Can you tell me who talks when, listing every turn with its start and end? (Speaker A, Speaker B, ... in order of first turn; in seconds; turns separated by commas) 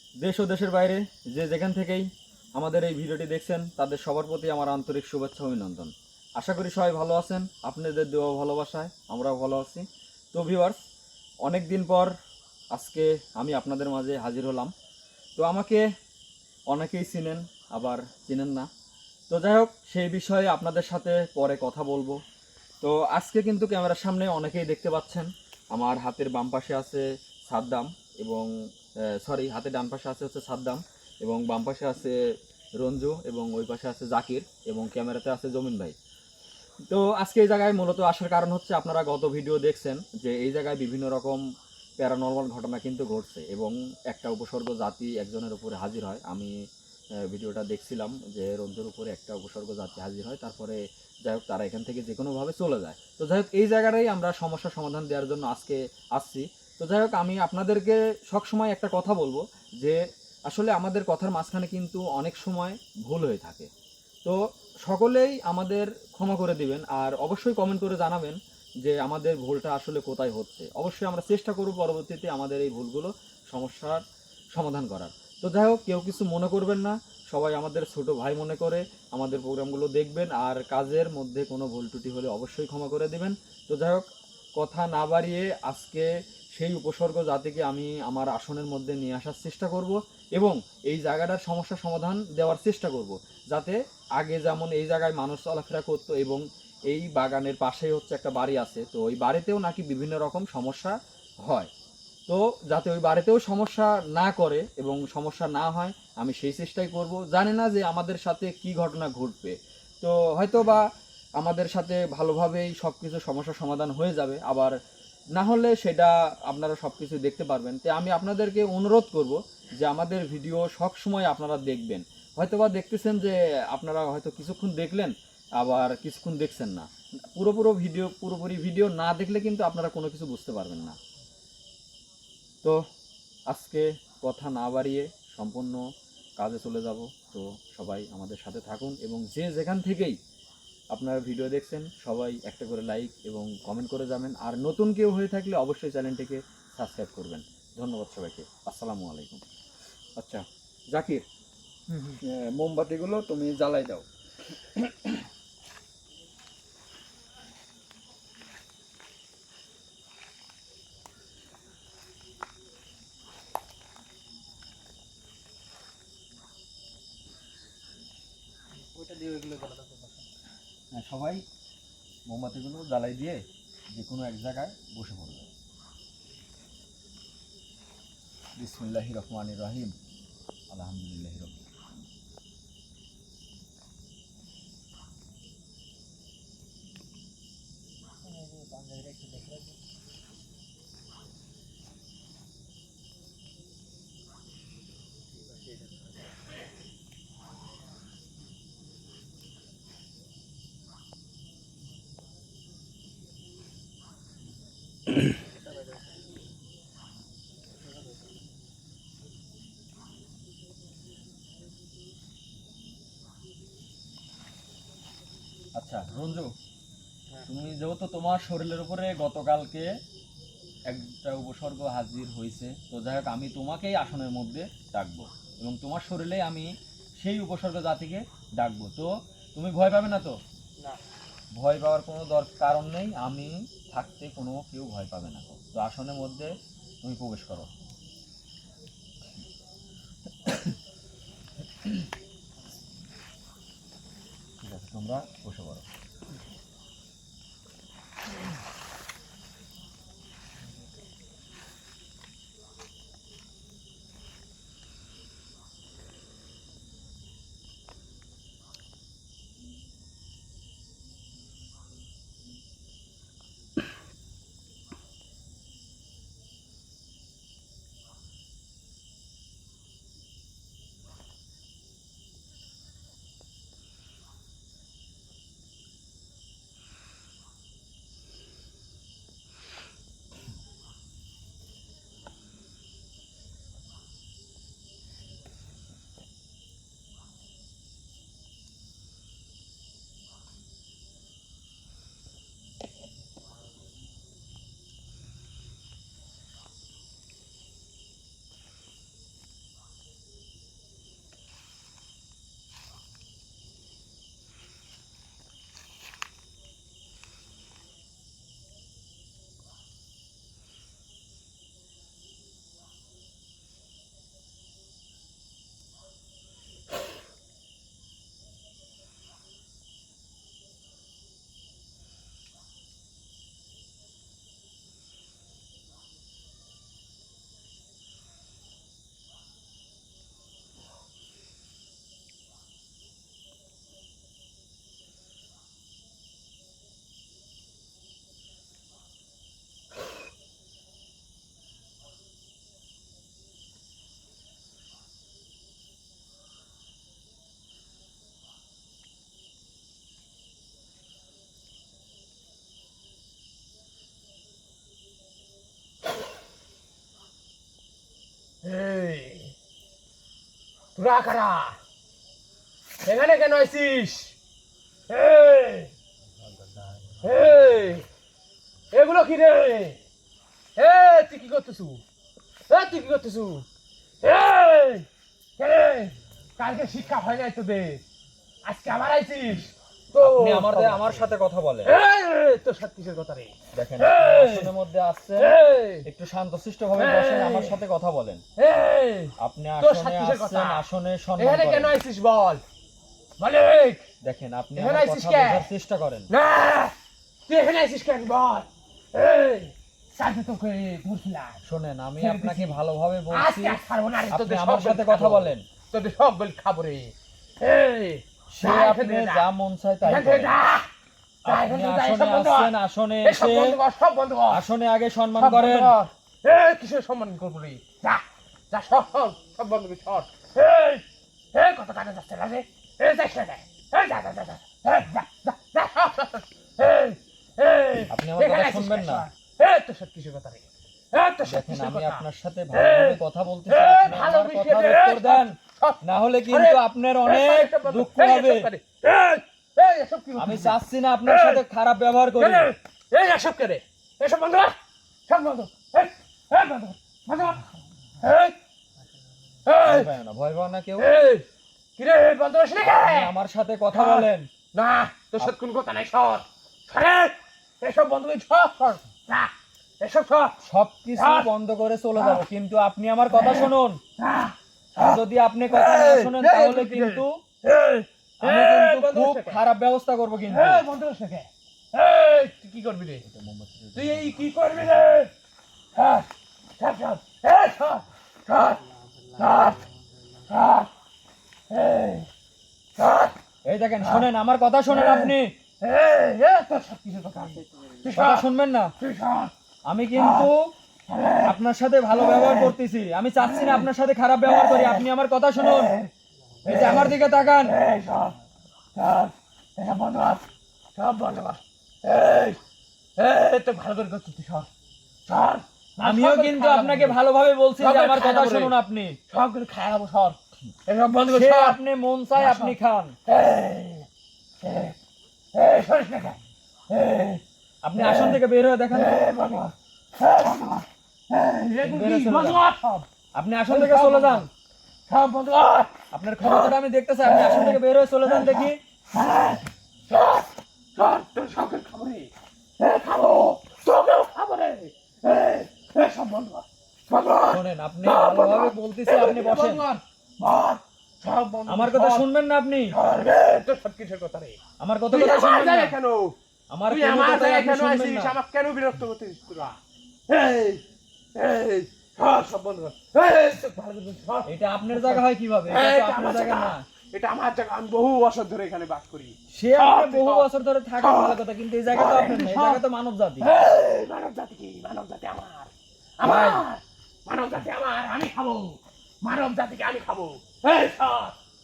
Speaker A: 0.2-2.0, Speaker A: 2.6-10.8, Speaker A: 11.4-12.1, Speaker A: 12.7-14.7, Speaker A: 15.4-15.8, Speaker A: 16.7-18.7, Speaker A: 19.3-22.2, Speaker A: 22.8-28.5, Speaker A: 29.1-32.2, Speaker A: 32.8-35.9, Speaker A: 36.9-41.4, Speaker A: 42.0-46.5, Speaker A: 47.2-63.7, Speaker A: 64.2-74.0, Speaker A: 74.5-84.0, Speaker A: 84.6-101.7, Speaker A: 102.3-110.8, Speaker A: 111.4-114.7, Speaker A: 115.3-131.0, Speaker A: 133.5-135.8, Speaker A: 136.4-140.2, Speaker A: 140.9-149.4, Speaker A: 150.2-151.2, Speaker B: 151.9-152.2, Speaker A: 152.2-155.2, Speaker B: 168.7-170.3, Speaker A: 170.9-171.4, Speaker A: 172.3-175.5, Speaker A: 178.6-179.9, Speaker A: 180.7-181.6, Speaker B: 188.3-189.8, Speaker B: 195.5-195.9, Speaker B: 205.7-206.0, Speaker A: 215.8-216.5, Speaker A: 217.5-219.9, Speaker A: 220.9-230.4, Speaker A: 231.5-237.7, Speaker A: 240.4-240.7, Speaker A: 244.6-245.8, Speaker C: 358.6-359.5, Speaker C: 360.9-361.8, Speaker C: 363.0-364.4, Speaker C: 365.1-365.9, Speaker C: 367.2-368.0, Speaker C: 368.9-370.0, Speaker C: 370.8-372.0, Speaker C: 372.7-373.6, Speaker C: 374.2-375.1, Speaker C: 375.6-378.0, Speaker C: 378.6-381.3, Speaker A: 380.2-381.9, Speaker C: 381.8-384.7, Speaker A: 383.7-388.4, Speaker C: 385.4-386.0, Speaker C: 386.9-387.8, Speaker C: 388.6-390.8, Speaker A: 389.4-392.0, Speaker C: 391.4-392.6, Speaker C: 393.4-394.1, Speaker A: 394.2-396.3, Speaker C: 394.8-395.7, Speaker C: 396.3-396.9, Speaker C: 397.5-401.6, Speaker A: 401.6-405.6, Speaker C: 402.2-402.8, Speaker C: 403.3-409.4, Speaker A: 408.5-410.6, Speaker C: 410.0-410.9, Speaker A: 411.4-413.8, Speaker C: 411.4-414.6, Speaker A: 414.5-416.0, Speaker C: 415.4-441.6, Speaker A: 428.1-429.3, Speaker A: 431.4-438.7, Speaker A: 440.4-442.7, Speaker C: 442.4-447.7, Speaker C: 448.2-448.6, Speaker C: 449.6-450.1, Speaker A: 449.8-451.1, Speaker C: 451.0-451.4, Speaker C: 452.0-453.3, Speaker A: 452.9-454.5, Speaker C: 453.9-460.6, Speaker A: 460.6-464.0, Speaker C: 461.2-461.5, Speaker C: 464.2-464.5, Speaker A: 464.9-467.4, Speaker C: 465.7-469.6, Speaker A: 468.4-470.9, Speaker C: 470.5-473.2, Speaker A: 473.2-474.5, Speaker C: 473.9-475.3, Speaker C: 475.9-478.8, Speaker B: 479.2-479.9, Speaker C: 479.4-479.8, Speaker C: 480.5-480.9, Speaker C: 481.7-482.3, Speaker C: 483.0-483.3, Speaker A: 483.6-485.5, Speaker C: 485.8-488.4, Speaker B: 487.6-488.0, Speaker A: 488.1-488.9, Speaker C: 489.0-489.5, Speaker A: 489.9-490.7, Speaker A: 491.4-495.9, Speaker A: 496.6-497.8, Speaker C: 497.7-498.3, Speaker C: 498.9-500.4, Speaker C: 500.9-502.6, Speaker C: 503.2-504.7, Speaker C: 505.3-507.2, Speaker A: 506.0-509.2, Speaker C: 507.8-508.8, Speaker C: 509.3-511.8, Speaker A: 511.3-513.1, Speaker C: 512.4-512.7, Speaker C: 513.3-514.0, Speaker C: 514.6-514.9, Speaker C: 515.5-516.4, Speaker C: 516.9-517.4, Speaker A: 517.8-519.2, Speaker C: 518.9-523.1, Speaker A: 521.8-522.6, Speaker A: 523.3-524.5, Speaker C: 523.7-524.5, Speaker C: 525.1-525.9, Speaker A: 526.1-528.8, Speaker C: 530.1-530.4, Speaker C: 531.0-542.3, Speaker A: 537.5-539.9, Speaker A: 541.7-543.0, Speaker C: 542.9-544.6, Speaker A: 544.8-546.0, Speaker C: 545.1-546.3, Speaker A: 546.7-548.4, Speaker C: 546.9-549.8, Speaker C: 550.3-550.8, Speaker C: 551.3-560.5, Speaker A: 554.5-556.8, Speaker A: 559.5-563.5, Speaker C: 561.0-561.3, Speaker C: 561.9-562.8, Speaker C: 563.4-571.4, Speaker A: 566.2-566.6